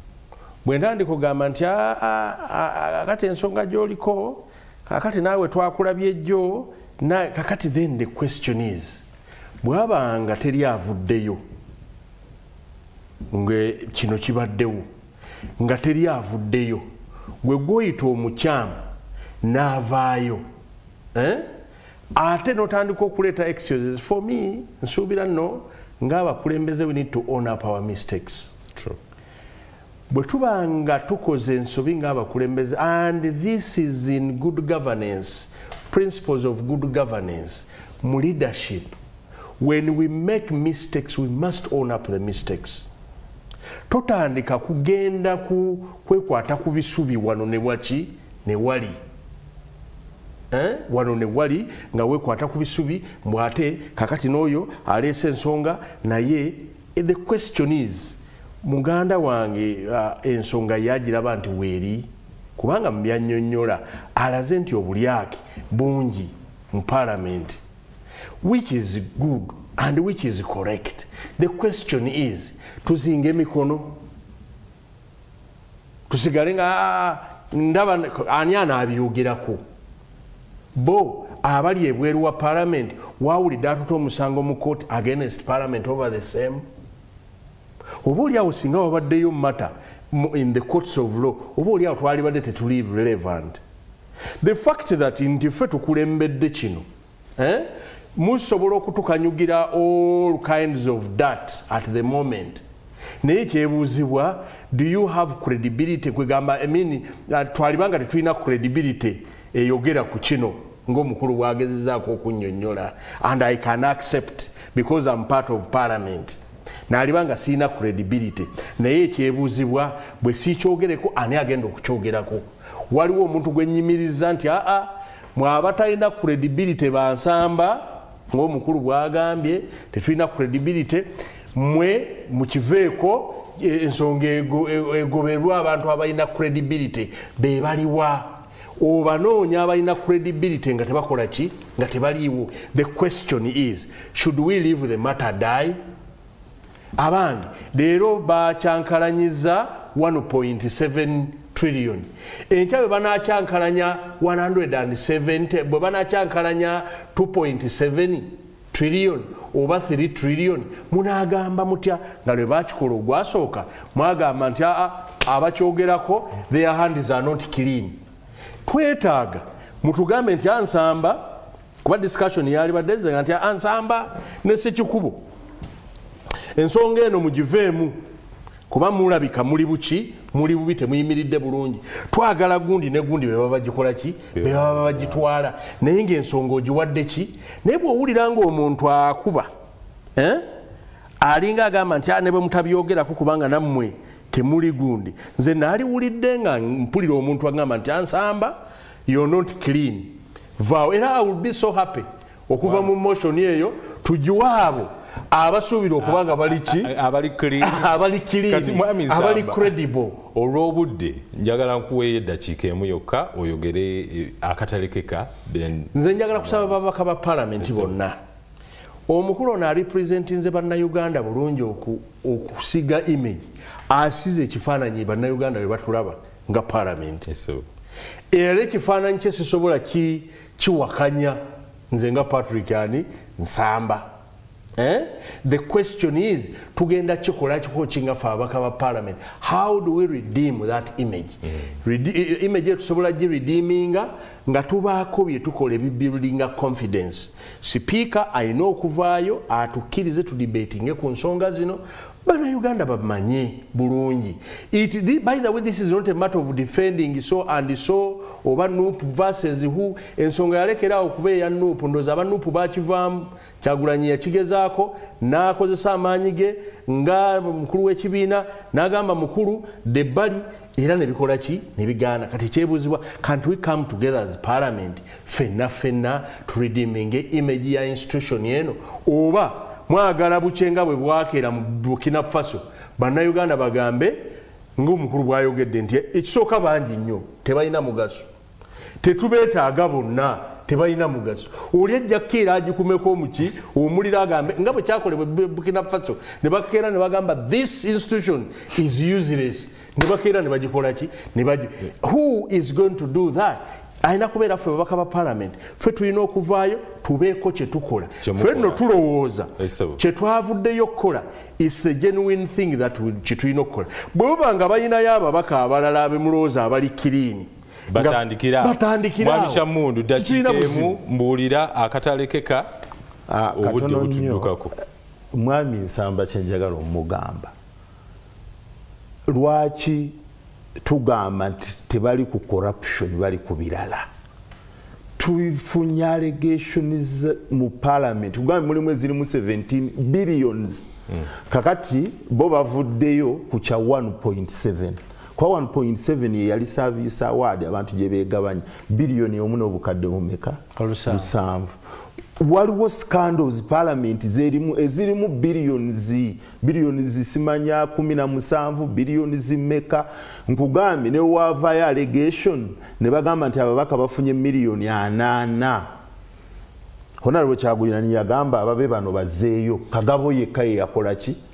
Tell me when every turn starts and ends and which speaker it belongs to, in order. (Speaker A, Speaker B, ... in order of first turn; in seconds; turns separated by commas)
Speaker A: 0.6-9.0, Speaker A: 9.6-11.4, Speaker A: 13.3-14.8, Speaker A: 15.6-16.9, Speaker A: 17.4-18.8, Speaker A: 19.4-20.4, Speaker A: 21.1-21.5, Speaker A: 22.1-28.6, Speaker A: 30.1-39.0, Speaker A: 39.6-42.9, Speaker A: 43.9-49.0, Speaker A: 50.5-67.6, Speaker A: 68.4-74.0, Speaker A: 76.1-79.6, Speaker A: 80.8-86.7, Speaker A: 88.0-93.6, Speaker A: 94.4-96.9, Speaker A: 97.4-102.6, Speaker A: 103.2-116.4, Speaker A: 116.9-145.8, Speaker A: 147.0-168.0, Speaker A: 168.7-175.2, Speaker A: 176.6-178.0, Speaker A: 178.7-189.5, Speaker B: 184.3-185.2, Speaker A: 190.2-190.4, Speaker A: 191.2-206.9, Speaker B: 202.6-202.9, Speaker B: 206.1-209.7, Speaker A: 207.6-210.2, Speaker B: 210.3-216.8, Speaker A: 215.9-218.2, Speaker B: 217.6-217.9, Speaker A: 219.1-227.3, Speaker B: 227.3-227.7, Speaker A: 228.3-231.4, Speaker A: 231.9-234.1, Speaker A: 234.8-288.3, Speaker A: 289.0-321.0, Speaker B: 308.2-308.8, Speaker B: 309.6-310.0, Speaker B: 317.9-322.7, Speaker C: 323.3-324.5, Speaker B: 323.5-324.8, Speaker C: 325.3-327.5, Speaker C: 329.3-330.2, Speaker C: 330.8-334.1, Speaker C: 335.2-340.9, Speaker C: 341.5-351.8, Speaker A: 350.8-351.3, Speaker C: 352.4-365.9, Speaker C: 367.2-371.4